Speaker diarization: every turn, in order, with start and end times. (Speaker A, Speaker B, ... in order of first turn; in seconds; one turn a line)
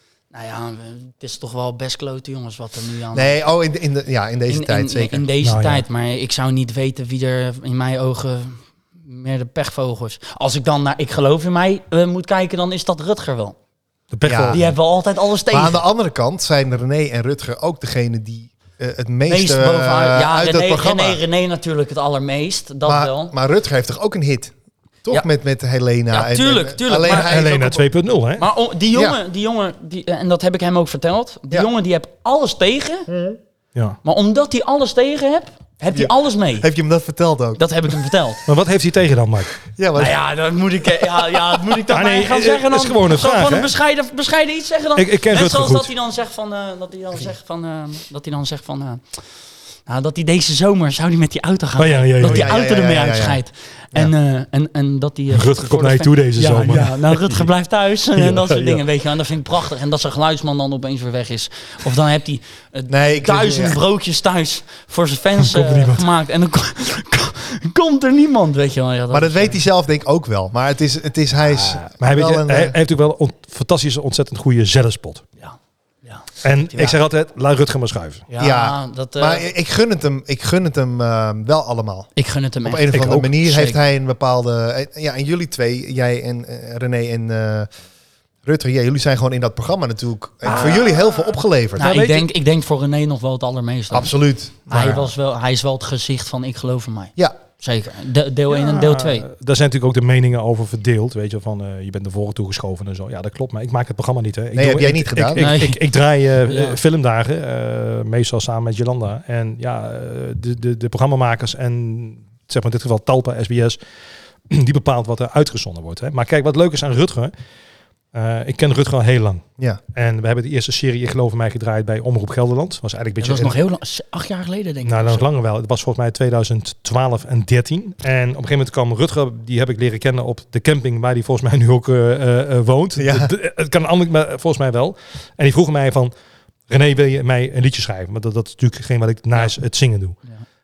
Speaker A: 0.3-3.4
Speaker B: 3.1-5.3
Speaker A: 4.5-13.6
Speaker C: 5.4-5.8
Speaker C: 14.1-14.7
Speaker B: 14.3-14.6
Speaker A: 14.5-15.8
Speaker B: 15.5-21.2
Speaker A: 19.3-23.3
Speaker B: 22.9-24.5
Speaker B: 25.0-27.9
Speaker A: 26.1-27.4
Speaker C: 27.1-28.5
Speaker A: 28.4-33.1
Speaker B: 33.1-33.4
Speaker A: 34.0-36.7
Speaker B: 35.9-37.6
Speaker A: 37.6-38.4
Speaker C: 38.5-39.5
Speaker B: 39.7-40.2
Speaker A: 40.0-49.3
Speaker C: 41.9-43.7
Speaker C: 45.0-45.9
Speaker A: 49.9-69.6
Speaker C: 51.8-52.5
Speaker B: 52.2-53.4
Speaker C: 55.3-57.5
Speaker C: 58.1-58.8
Speaker B: 62.9-63.8
Speaker C: 65.4-66.1
Speaker B: 69.1-72.8
Speaker C: 71.5-75.2
Speaker A: 75.4-77.0
Speaker C: 76.4-78.2
Speaker A: 78.3-79.5
Speaker B: 78.4-82.1
Speaker A: 82.2-83.8
Speaker B: 82.6-87.7
Speaker C: 82.9-83.3
Speaker B: 88.5-91.9
Speaker A: 90.4-91.1
Speaker A: 91.8-94.1
Speaker C: 91.8-92.3
Speaker B: 93.9-95.1
Speaker A: 94.7-99.3
Speaker C: 98.5-113.8
Speaker B: 104.5-105.5
Speaker A: 105.4-105.8
Speaker A: 106.5-106.8
Speaker C: 114.5-117.3
Speaker C: 118.1-123.6
Speaker A: 123.2-125.3
Speaker C: 124.8-136.1
Speaker B: 133.0-133.3
Speaker C: 136.7-140.2